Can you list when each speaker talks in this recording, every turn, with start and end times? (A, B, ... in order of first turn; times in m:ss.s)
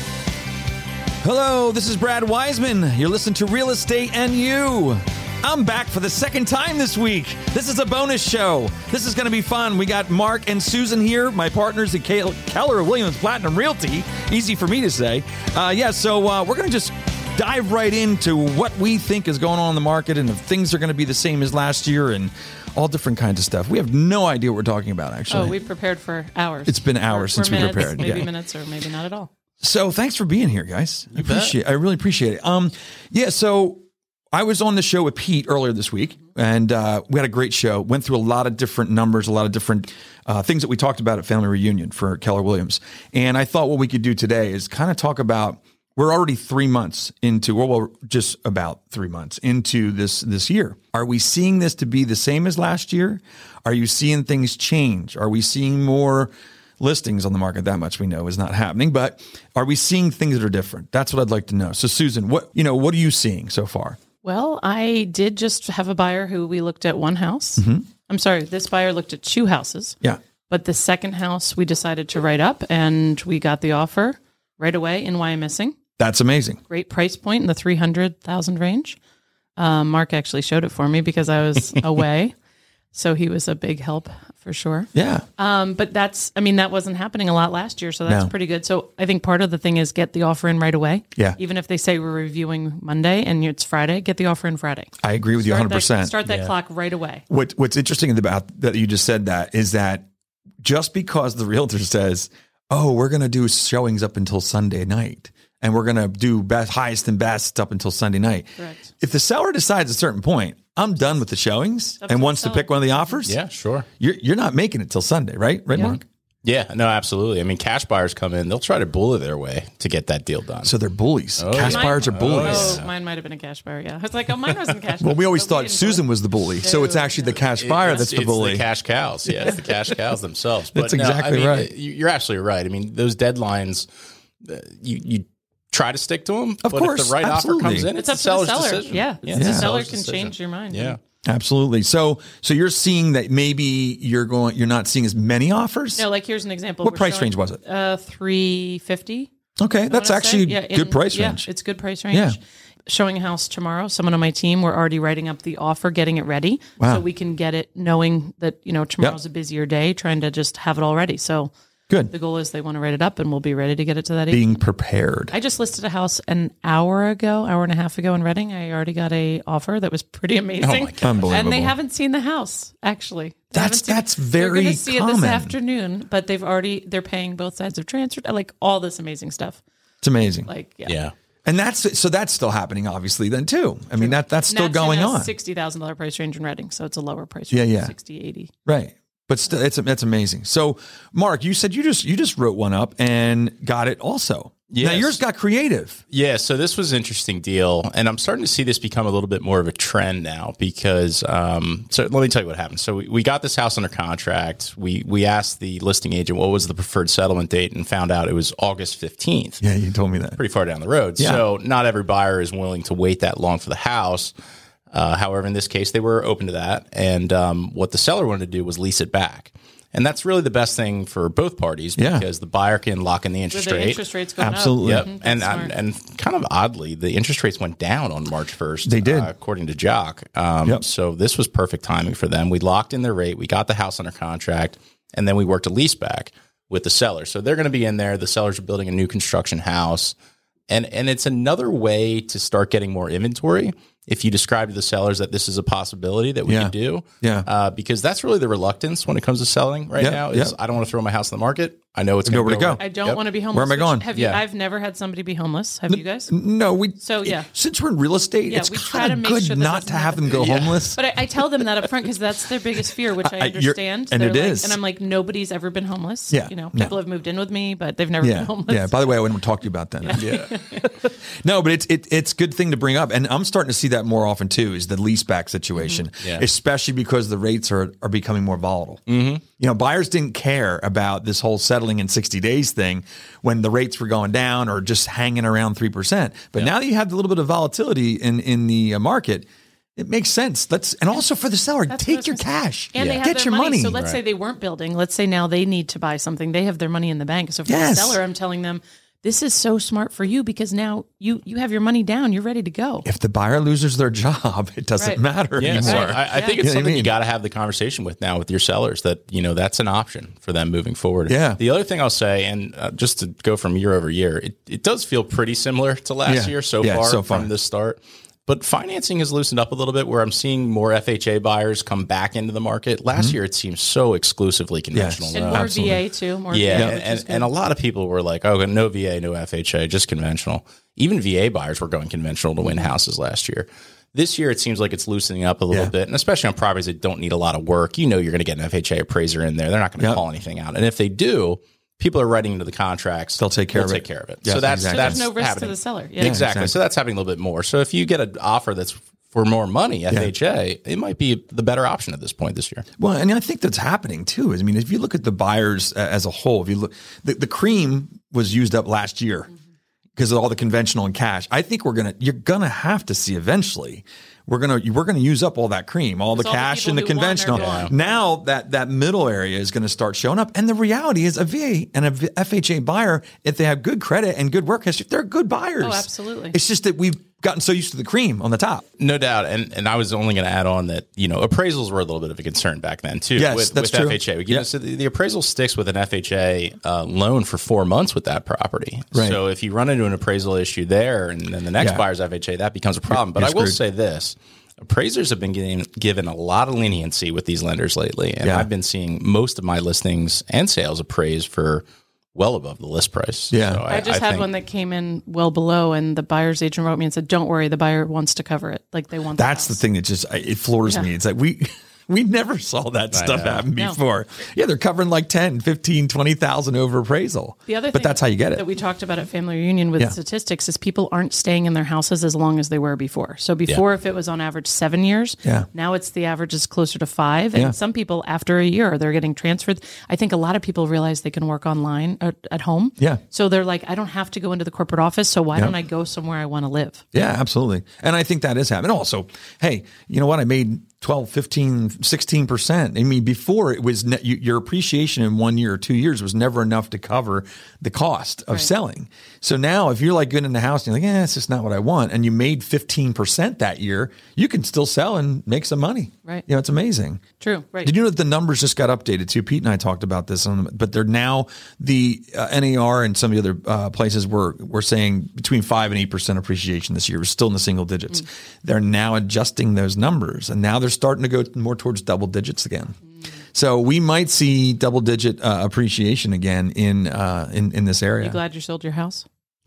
0:01.2-0:25.6 A
0:25.3-0:29.3 B
0:26.7-0:28.3 A
0:29.6-0:33.8 A
0:31.1-0:31.6 C
0:34.3-1:04.0 A
1:04.2-1:10.0 B
1:07.6-1:07.9 A
1:10.5-1:15.8 B
1:16.0-1:16.6 A
1:16.7-1:19.0 B
1:19.6-1:22.3 B
1:22.9-1:37.2 B
1:24.9-1:25.2 A
1:28.1-1:28.3 A
1:35.0-1:36.2 A
1:36.3-1:36.5 C
1:37.3-1:40.1 A
1:40.6-1:53.4 A
1:48.6-1:48.9 B
1:52.0-1:53.2 B
1:53.2-1:53.9 C
1:54.0-1:56.0 A
1:55.8-2:00.7 C
2:00.6-2:02.8 A
2:01.4-2:02.9 C
2:01.6-2:08.0 B
2:05.0-2:08.7 A
2:07.6-2:13.9 C
2:10.7-2:11.7 A
2:14.4-2:21.0 C
2:16.6-2:17.9 A
2:17.9-2:21.0 B
2:19.3-2:19.7 A
2:21.2-2:26.1 A
2:26.0-2:29.3 B
2:26.8-2:27.6 A
2:29.6-2:31.5 A
2:29.9-2:41.5 B
2:32.1-2:32.4 A
2:36.8-2:37.0 A
2:42.1-2:44.6 B
2:44.3-2:45.3 A
2:45.3-2:59.6 B
2:50.6-2:51.4 C
2:51.0-2:51.8 A
2:53.5-2:55.6 A
3:00.0-3:00.5 A
3:00.4-3:01.0 B
3:00.9-3:01.1 C
3:01.5-3:05.3 A
3:04.0-3:08.5 B
3:07.5-3:07.9 A
3:08.7-3:16.0 A
3:14.7-3:15.2 C
3:16.1-3:29.6 C
3:29.6-3:30.4 A
3:30.4-3:34.3 C
3:31.2-3:31.4 A
3:34.9-3:44.0 C
3:42.0-3:42.3 A
3:43.5-3:45.8 B
3:44.4-3:45.1 A
3:44.8-4:00.2 C
3:48.8-3:49.3 A
4:00.7-4:13.2 C
4:06.5-4:07.5 A
4:10.0-4:10.5 A
4:12.2-4:12.8 A
4:12.8-4:16.3 B
4:13.5-4:14.1 A
4:14.1-4:14.4 C
4:15.9-4:21.0 A
4:17.0-4:17.5 B
4:18.5-4:29.4 B
4:20.3-4:21.0 C
4:23.2-4:24.8 A
4:26.3-4:27.0 A
4:28.2-4:39.0 A
4:30.0-4:30.9 B
4:30.1-4:30.6 C
4:35.8-4:36.0 B
4:36.2-4:36.5 C
4:39.1-4:39.4 C
4:39.6-4:54.0 A
4:51.9-5:03.1 B
4:53.0-4:53.3 C
4:57.7-4:58.2 A
5:03.0-5:07.1 A
5:05.0-5:06.6 B
5:05.6-5:25.7 C
5:11.3-5:11.6 A
5:16.3-5:17.5 A
5:24.9-5:26.0 A
5:25.3-5:27.5 B
5:26.5-5:52.8 C
5:43.4-5:45.3 A
5:44.9-5:46.4 B
5:46.2-5:46.8 A
5:53.0-5:59.5 A
6:00.2-6:18.8 A
6:06.3-6:08.2 B
6:07.5-6:07.9 C
6:15.8-6:16.6 B
6:19.0-6:41.8 C
6:23.4-6:24.7 A
6:29.1-6:29.4 A
6:31.8-6:32.0 A
6:33.1-6:33.8 A
6:38.4-6:38.7 A
6:42.4-6:44.5 C
6:43.5-6:43.9 A
6:43.9-6:49.8 B
6:49.4-6:58.7 A
6:53.1-6:53.7 C
6:53.7-6:54.0 B
6:57.7-7:17.0 B
7:17.1-7:37.2 A
7:37.4-7:38.0 B
7:37.8-7:53.0 A
7:53.5-7:58.4 A
7:58.2-7:59.3 B